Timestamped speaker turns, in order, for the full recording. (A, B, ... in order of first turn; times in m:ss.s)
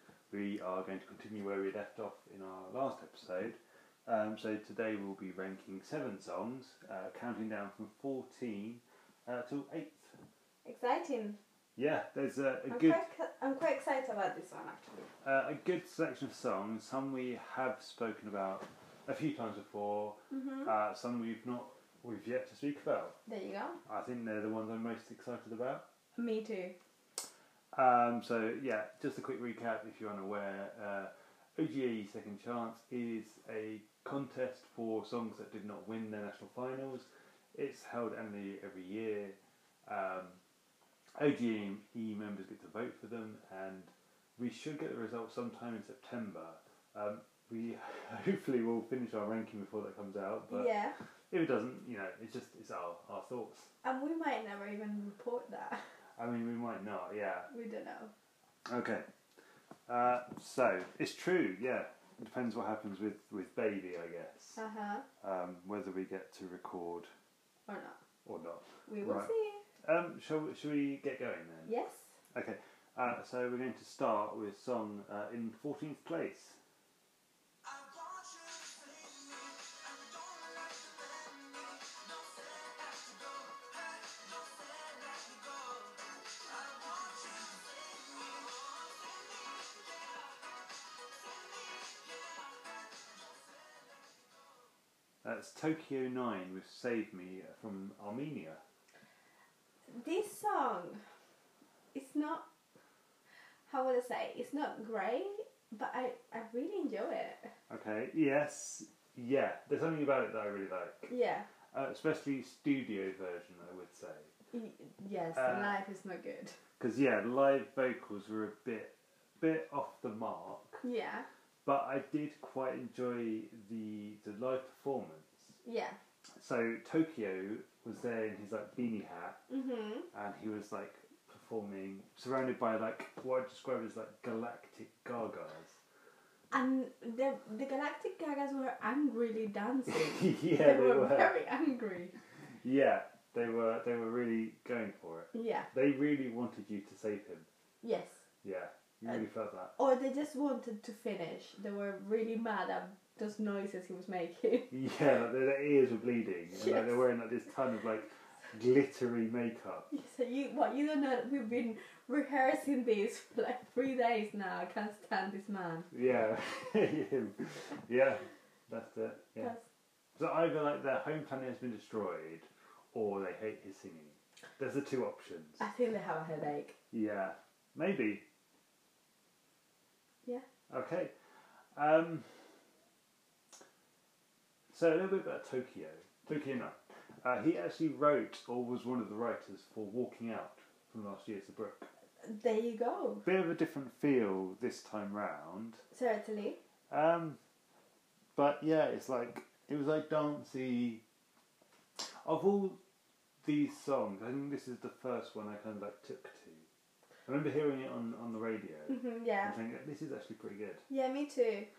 0:00.3-0:10.2 A
0:10.6-0:11.4 B
0:11.8-0:13.0 A
0:12.7-0:15.1 B
0:15.2-0:23.2 A
0:20.3-0:20.7 B
0:23.3-0:23.8 B
0:23.9-0:25.8 A
0:26.2-0:26.8 B
0:27.8-0:40.4 A
0:41.2-0:50.7 A
0:50.5-0:51.0 B
0:51.3-0:53.7 A
0:53.8-0:55.9 B
0:56.2-0:57.5 A
0:57.5-0:58.1 B
0:58.7-0:59.1 A
0:59.9-1:04.6 A
1:04.6-1:05.1 B
1:05.2-1:07.1 A
1:07.7-1:08.0 B
1:08.2-1:09.3 A
1:08.9-1:09.6 B
1:09.8-1:11.7 A
1:11.7-1:12.1 B
1:12.3-1:16.6 A
1:17.6-1:30.3 C
1:31.2-1:34.6 C
1:35.2-1:38.6 A
1:39.9-1:41.0 B
1:41.9-1:42.5 B
1:43.7-1:47.5 B
1:47.7-1:51.1 A
1:51.1-1:51.5 B
1:51.7-1:54.3 A
1:54.5-1:56.6 B
1:55.3-1:55.8 A
1:56.8-2:00.8 A
2:00.8-2:01.3 B
2:01.6-2:05.6 A
2:05.6-2:06.0 B
2:06.4-2:09.4 A
2:09.5-2:10.1 B
2:10.1-2:15.8 A
2:16.5-2:22.1 B
2:19.9-2:21.3 A
2:22.6-2:27.5 A
2:25.3-2:25.7 B
2:27.8-2:28.2 B
2:28.4-2:29.7 A
2:29.8-2:34.7 B
2:34.7-2:39.9 A
2:36.5-2:37.0 B
2:39.9-2:45.9 B
2:45.9-2:49.5 A
2:50.2-2:55.6 A
2:55.6-2:56.8 B
2:56.9-2:58.2 A
3:00.7-3:01.1 A
3:01.8-3:02.4 A
3:04.7-3:11.9 A
3:12.2-3:13.2 B
3:13.2-3:15.8 A
3:15.9-3:16.6 B
3:16.9-3:17.4 A
3:18.4-3:21.0 A
3:22.0-3:22.8 A
3:23.4-3:26.6 A
3:27.3-3:30.8 A
3:28.9-3:29.6 B
3:30.9-3:31.7 B